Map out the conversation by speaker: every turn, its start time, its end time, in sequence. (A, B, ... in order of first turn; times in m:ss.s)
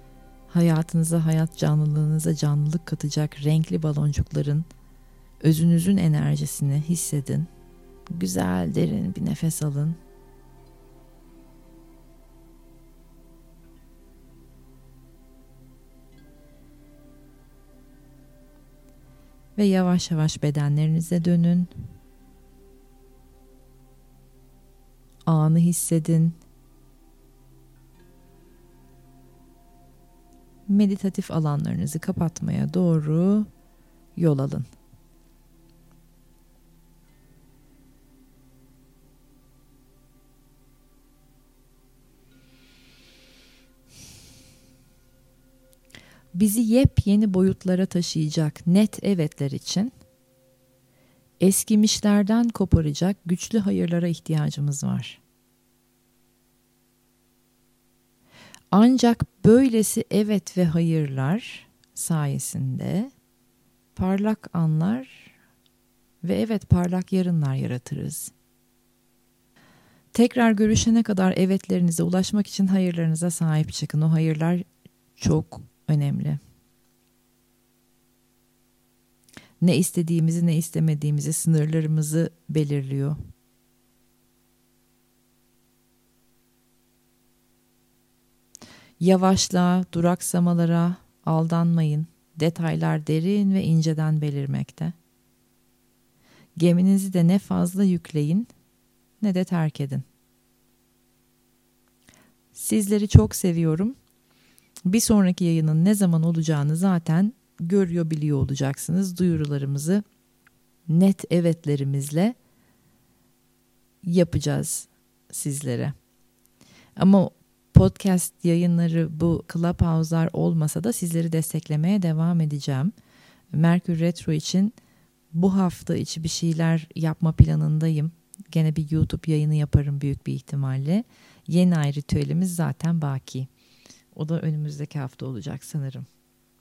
0:00.5-0:04.7 A
0:05.4-0:07.5 A
0:08.1-0:10.0 A
0:19.6-0:21.7 A
0:25.3-0:26.4 A
0:30.7-0:33.5 A
0:34.2-0:34.7 A
0:46.3-0:49.9 A
0:51.4-0:55.2 A
0:58.7-1:03.1 A
1:04.0-1:05.3 A
1:06.2-1:08.3 A
1:10.1-1:14.6 A
1:15.2-1:16.4 A
1:19.6-1:23.2 A
1:29.0-1:35.0 A
1:36.6-1:38.5 A
1:39.2-1:40.0 A
1:42.5-1:44.0 A
1:44.9-1:50.0 A
1:50.9-1:52.4 A
1:54.0-1:55.9 A
1:57.0-2:02.9 A
2:03.5-2:04.8 A
2:05.3-2:13.5 A
2:14.1-2:16.1 A